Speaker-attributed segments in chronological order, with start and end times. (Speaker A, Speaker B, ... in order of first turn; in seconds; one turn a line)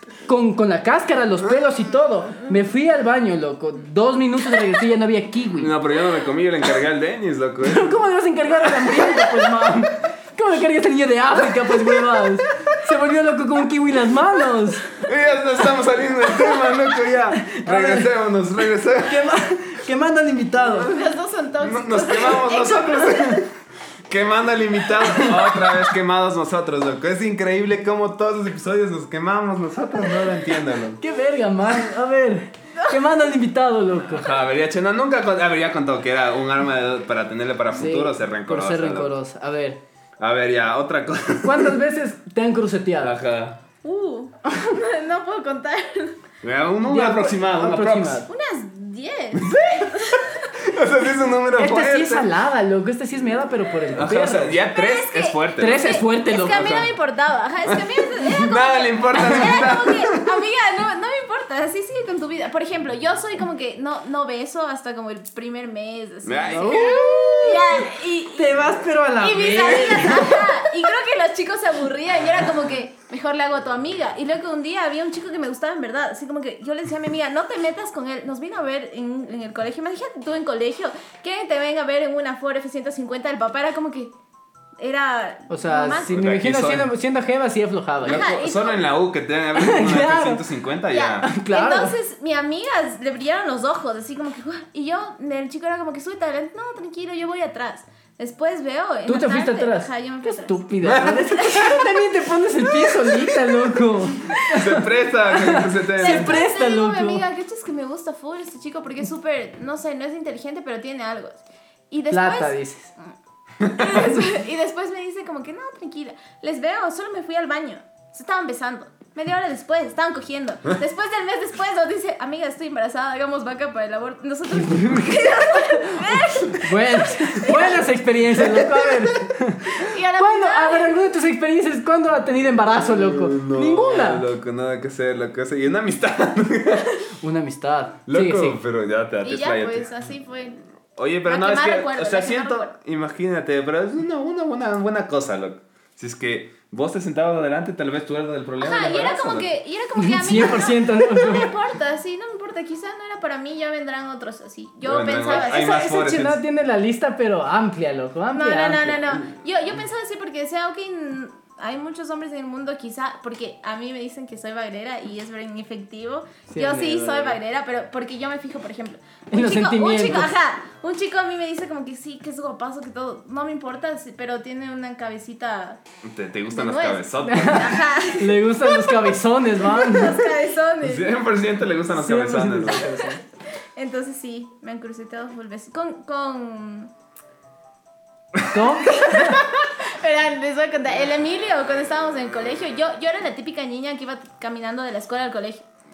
Speaker A: 0.2-5.7
Speaker B: 5.5-8.0
Speaker A: 7.6-14.9
Speaker B: 8.7-9.3
Speaker B: 14.9-19.4
Speaker A: 17.4-18.1
Speaker A: 19.0-20.9
Speaker C: 20.6-23.4
Speaker B: 21.6-23.5
Speaker B: 24.1-31.0
Speaker A: 25.1-25.7
Speaker A: 31.0-34.3
Speaker B: 34.0-39.1
Speaker A: 37.7-39.8
Speaker B: 40.2-41.8
Speaker A: 41.4-43.1
Speaker B: 43.0-43.6
Speaker C: 43.8-46.2
Speaker B: 46.4-48.2
Speaker A: 46.8-48.3
Speaker C: 48.3-50.5
Speaker B: 49.3-50.0
Speaker B: 50.6-52.3
Speaker A: 51.5-54.6
Speaker B: 53.9-56.9
Speaker C: 54.7-68.6
Speaker A: 55.6-56.8
Speaker B: 57.6-60.2
Speaker B: 66.2-67.8
Speaker A: 66.5-67.5
Speaker A: 68.3-70.5
Speaker C: 69.2-84.1
Speaker C: 84.8-86.2
Speaker A: 85.5-88.2
Speaker B: 86.1-86.9
Speaker B: 88.0-91.3
Speaker C: 88.0-88.8
Speaker A: 89.5-90.4
Speaker C: 90.9-102.0
Speaker A: 91.2-91.9
Speaker A: 99.1-107.2
Speaker B: 100.8-101.4
Speaker B: 104.5-106.4
Speaker C: 106.0-112.6
Speaker A: 112.1-112.9
Speaker B: 113.6-114.0
Speaker C: 113.7-127.8
Speaker A: 124.5-134.3
Speaker B: 128.4-128.8
Speaker C: 129.8-130.9
Speaker B: 132.7-137.1
Speaker A: 137.2-138.6
Speaker B: 138.1-139.9
Speaker C: 139.2-140.6
Speaker B: 141.0-149.5
Speaker C: 141.2-142.7
Speaker C: 148.6-155.6
Speaker A: 149.9-151.5
Speaker B: 154.8-156.4
Speaker A: 155.3-159.2
Speaker C: 158.3-175.8
Speaker A: 166.5-167.4
Speaker A: 169.3-170.3
Speaker B: 176.0-177.8
Speaker C: 176.5-181.3
Speaker A: 177.2-180.2
Speaker B: 180.8-182.9
Speaker A: 181.9-183.2
Speaker C: 182.7-183.2
Speaker C: 183.8-186.9
Speaker A: 188.5-189.4
Speaker C: 188.8-195.6